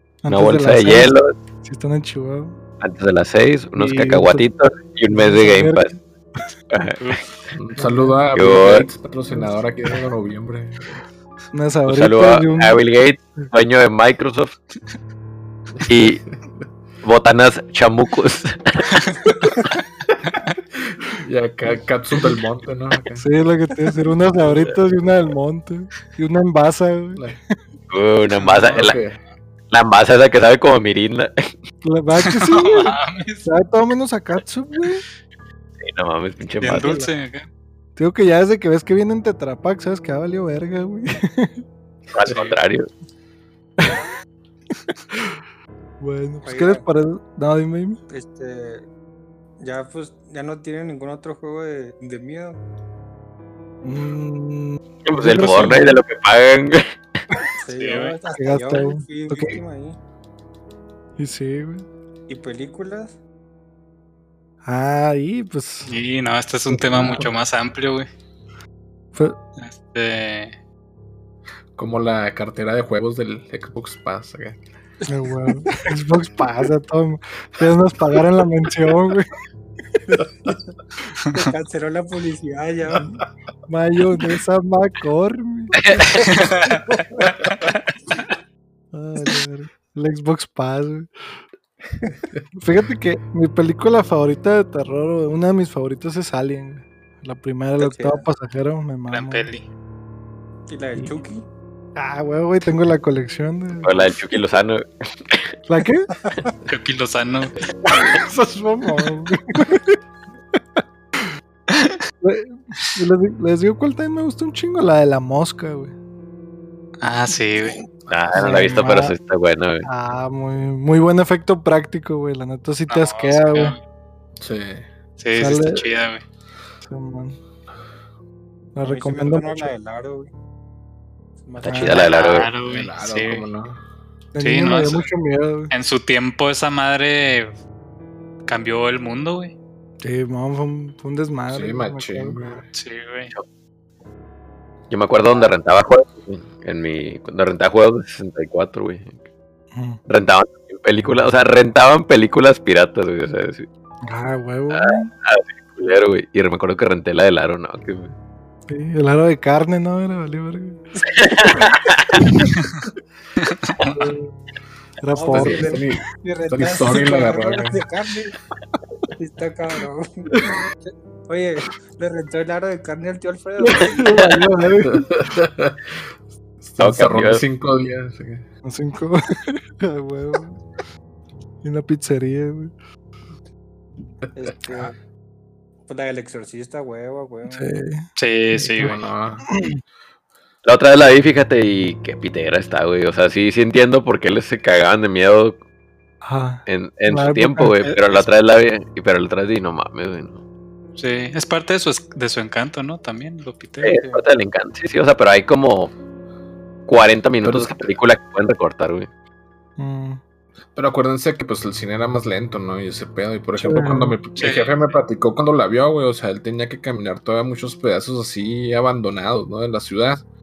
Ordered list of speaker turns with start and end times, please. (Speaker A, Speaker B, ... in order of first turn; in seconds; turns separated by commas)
Speaker A: 0.2-2.6, Speaker B: 0.3-1.3, Speaker B: 2.8-6.0, Speaker A: 3.8-4.5, Speaker A: 5.1-6.0, Speaker B: 6.7-7.2, Speaker C: 7.0-7.2, Speaker D: 7.6-10.9, Speaker A: 7.8-8.2, Speaker B: 8.3-8.9, Speaker A: 11.5-12.8, Speaker B: 11.9-14.6, Speaker B: 15.8-16.2, Speaker B: 17.0-18.9, Speaker D: 20.8-23.2, Speaker A: 23.2-27.3, Speaker B: 27.9-29.0, Speaker C: 28.4-28.9, Speaker D: 28.7-29.2, Speaker B: 29.7-31.3, Speaker A: 31.8-35.0, Speaker C: 32.4-33.5, Speaker B: 35.8-37.0, Speaker C: 36.6-37.5, Speaker A: 38.0-41.6, Speaker B: 42.1-42.9, Speaker A: 43.8-44.0, Speaker A: 46.0-48.0, Speaker E: 46.5-46.8, Speaker E: 48.1-48.9, Speaker E: 49.6-52.6, Speaker A: 53.8-56.0, Speaker B: 55.0-57.0, Speaker E: 57.6-60.0, Speaker C: 57.8-58.2, Speaker A: 58.4-59.6, Speaker A: 61.2-61.9, Speaker E: 62.3-63.1, Speaker A: 64.7-65.9, Speaker C: 65.9-68.1, Speaker A: 66.7-67.3, Speaker D: 67.0-67.3, Speaker C: 69.6-70.5, Speaker D: 71.8-74.6, Speaker E: 75.0-75.4, Speaker A: 75.1-79.3, Speaker E: 81.3-83.2, Speaker A: 83.7-85.8, Speaker B: 85.8-86.2, Speaker E: 86.0-87.3, Speaker C: 86.3-86.8, Speaker A: 88.9-91.1, Speaker A: 92.6-99.5, Speaker E: 97.8-98.2, Speaker C: 99.1-99.6, Speaker E: 100.7-101.5, Speaker A: 102.0-104.0, Speaker B: 103.8-105.5, Speaker A: 105.7-106.1, Speaker E: 106.2-106.5, Speaker C: 106.7-107.5, Speaker A: 107.9-109.9, Speaker C: 111.7-112.0, Speaker A: 112.2-115.9, Speaker C: 117.0-117.8, Speaker B: 118.1-119.9, Speaker A: 118.3-119.1, Speaker A: 119.8-123.8, Speaker C: 122.9-123.8, Speaker D: 124.4-124.9, Speaker C: 125.2-126.2, Speaker A: 125.3-125.9, Speaker A: 126.9-127.4, Speaker A: 128.8-129.7, Speaker E: 128.8-130.3, Speaker E: 131.4-132.2, Speaker B: 131.6-132.5, Speaker A: 131.7-132.0, Speaker C: 131.9-133.4, Speaker D: 132.6-133.8, Speaker A: 134.3-135.7, Speaker C: 134.4-135.1, Speaker C: 135.7-137.5, Speaker C: 138.5-139.5, Speaker A: 140.0-142.6, Speaker D: 141.5-142.7, Speaker C: 142.7-143.3, Speaker B: 144.9-149.2, Speaker A: 149.7-150.0, Speaker B: 150.1-153.7, Speaker A: 154.1-155.1, Speaker B: 154.7-158.1, Speaker A: 158.7-160.8, Speaker B: 161.1-162.2, Speaker C: 163.4-164.0, Speaker A: 163.9-164.3, Speaker A: 165.0-165.8, Speaker E: 165.1-168.4, Speaker D: 165.3-167.8, Speaker E: 169.2-170.7, Speaker E: 171.3-174.3, Speaker A: 173.7-175.1, Speaker B: 174.1-174.4, Speaker D: 174.9-176.0, Speaker D: 176.6-178.4, Speaker B: 176.8-177.4, Speaker A: 178.6-180.6, Speaker A: 181.6-182.7, Speaker D: 184.2-184.9, Speaker E: 184.3-184.9, Speaker E: 185.9-187.7, Speaker A: 187.5-188.1, Speaker C: 188.2-189.0, Speaker D: 188.6-189.5, Speaker A: 189.5-189.8, Speaker B: 190.7-195.6, Speaker A: 196.2-197.9, Speaker B: 196.7-200.4, Speaker C: 201.0-204.0, Speaker B: 203.8-205.9, Speaker E: 203.9-204.3, Speaker B: 206.9-209.1, Speaker D: 207.4-207.9, Speaker A: 209.8-210.2, Speaker D: 210.8-220.2, Speaker A: 213.6-214.2, Speaker C: 214.4-214.9